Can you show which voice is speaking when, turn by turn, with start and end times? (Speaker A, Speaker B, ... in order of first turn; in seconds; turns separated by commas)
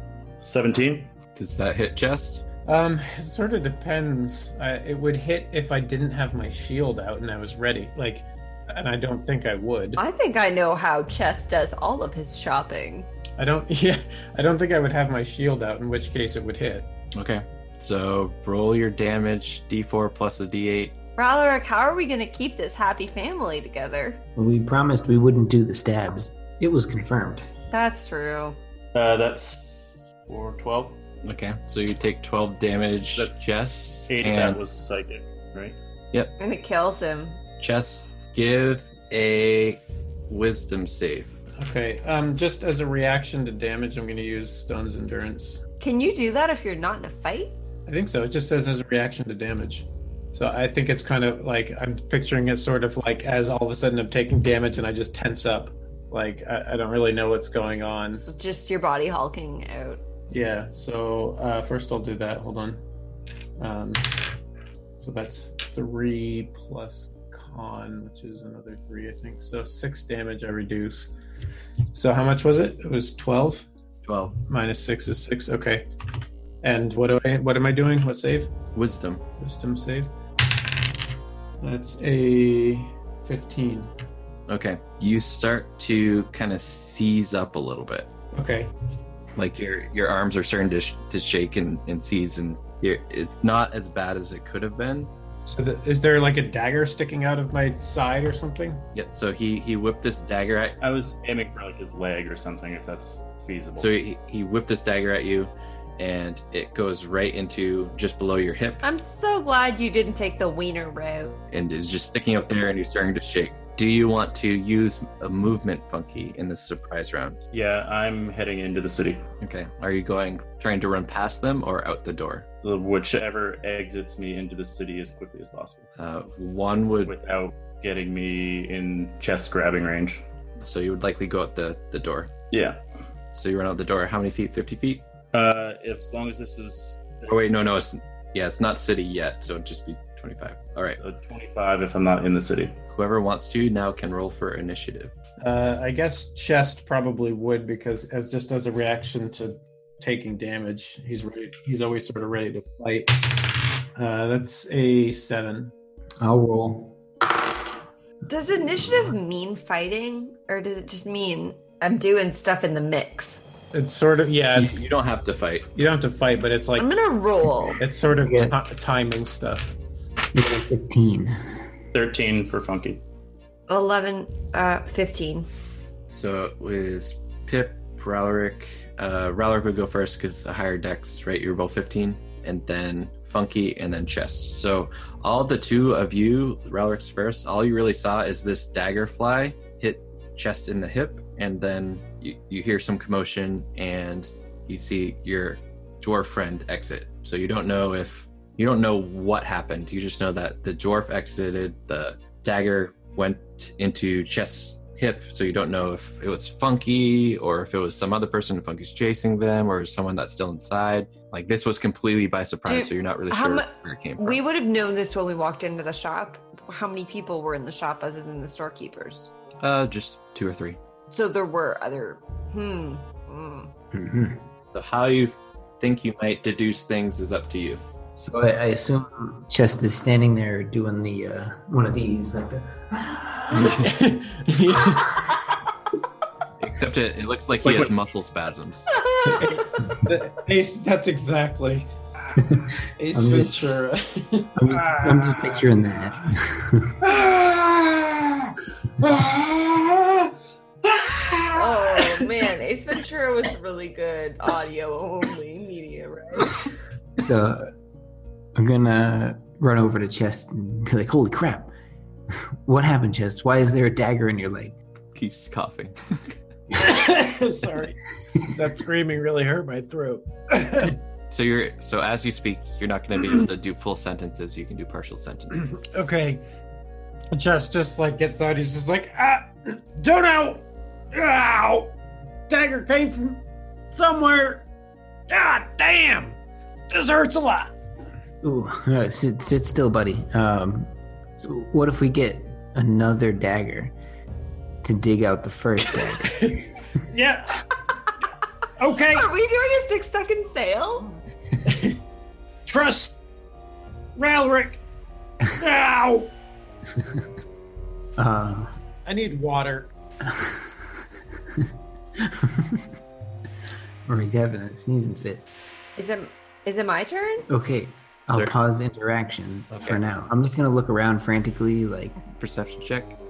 Speaker A: 0.4-1.1, Speaker B: 1.3-2.4, Speaker C: 2.6-10.0, Speaker D: 9.9-13.1, Speaker C: 13.4-16.9, Speaker B: 17.1-20.9, Speaker D: 21.2-24.2, Speaker E: 24.4-27.4, Speaker D: 27.7-28.6, Speaker A: 28.9-31.0, Speaker B: 31.2-34.6, Speaker A: 33.2-33.5, Speaker A: 34.0-35.8, Speaker D: 36.4-37.4, Speaker B: 37.6-41.4, Speaker C: 41.6-45.6, Speaker D: 45.8-47.5, Speaker C: 47.9-58.2, Speaker D: 58.1-60.0, Speaker C: 60.3-62.8, Speaker C: 63.6-64.1, Speaker C: 65.0-71.1, Speaker C: 71.9-73.7, Speaker B: 74.0-74.4, Speaker C: 74.5-75.8, Speaker C: 76.6-78.5, Speaker B: 78.7-79.2, Speaker C: 79.4-80.1, Speaker C: 81.6-83.9, Speaker B: 84.5-88.1, Speaker C: 88.3-88.7, Speaker B: 89.3-95.1, Speaker C: 95.5-98.8, Speaker B: 98.9-100.8, Speaker A: 100.8-103.9, Speaker B: 103.8-108.8, Speaker D: 108.8-111.4, Speaker B: 111.5-117.4, Speaker A: 117.5-119.2, Speaker B: 119.4-122.5, Speaker A: 122.6-125.9, Speaker B: 126.0-127.1, Speaker A: 127.0-130.2, Speaker B: 130.6-132.3, Speaker A: 132.5-132.8, Speaker B: 133.3-135.0, Speaker A: 135.3-137.2, Speaker B: 137.2-141.0, Speaker A: 141.0-142.8, Speaker B: 142.9-145.2, Speaker C: 145.4-155.7, Speaker E: 156.2-157.0, Speaker D: 158.3-163.5, Speaker C: 163.7-164.8, Speaker B: 164.5-165.7, Speaker C: 165.8-166.9, Speaker D: 166.8-167.8, Speaker C: 167.8-169.8, Speaker E: 168.2-168.6, Speaker E: 170.3-171.4, Speaker A: 171.9-173.0, Speaker D: 173.7-175.5, Speaker B: 176.1-214.4, Speaker D: 212.6-219.3, Speaker B: 219.6-220.8, Speaker D: 221.1-223.7, Speaker E: 223.9-224.5, Speaker B: 224.7-227.8, Speaker E: 228.1-233.7, Speaker B: 233.5-233.9, Speaker C: 233.6-235.6, Speaker B: 236.6-238.9, Speaker A: 237.6-237.9, Speaker D: 239.0-239.4, Speaker C: 239.2-242.4, Speaker E: 242.4-243.7, Speaker C: 243.0-245.5, Speaker E: 244.6-247.0, Speaker C: 247.0-250.3, Speaker C: 250.8-252.4, Speaker D: 251.5-256.6, Speaker E: 257.2-257.7, Speaker E: 258.5-261.7, Speaker E: 262.6-264.7, Speaker B: 265.1-266.3, Speaker C: 266.7-271.0, Speaker B: 271.3-275.7, Speaker C: 275.5-276.4, Speaker C: 277.3-281.9, Speaker C: 282.5-284.6, Speaker C: 285.3-286.4, Speaker C: 286.9-287.7, Speaker E: 288.4-293.9, Speaker E: 294.8-296.6, Speaker C: 296.0-296.6, Speaker C: 297.1-297.7, Speaker C: 298.8-299.2, Speaker D: 299.1-301.1, Speaker C: 301.6-302.0, Speaker C: 302.6-303.2, Speaker C: 304.1-304.8, Speaker C: 305.6-306.3, Speaker E: 306.9-307.2, Speaker E: 308.2-308.7, Speaker C: 309.1-309.9, Speaker E: 310.2-310.7, Speaker E: 312.2-312.9, Speaker E: 314.1-315.5, Speaker D: 316.0-317.5, Speaker E: 317.5-322.2, Speaker B: 319.7-320.0, Speaker B: 322.3-323.2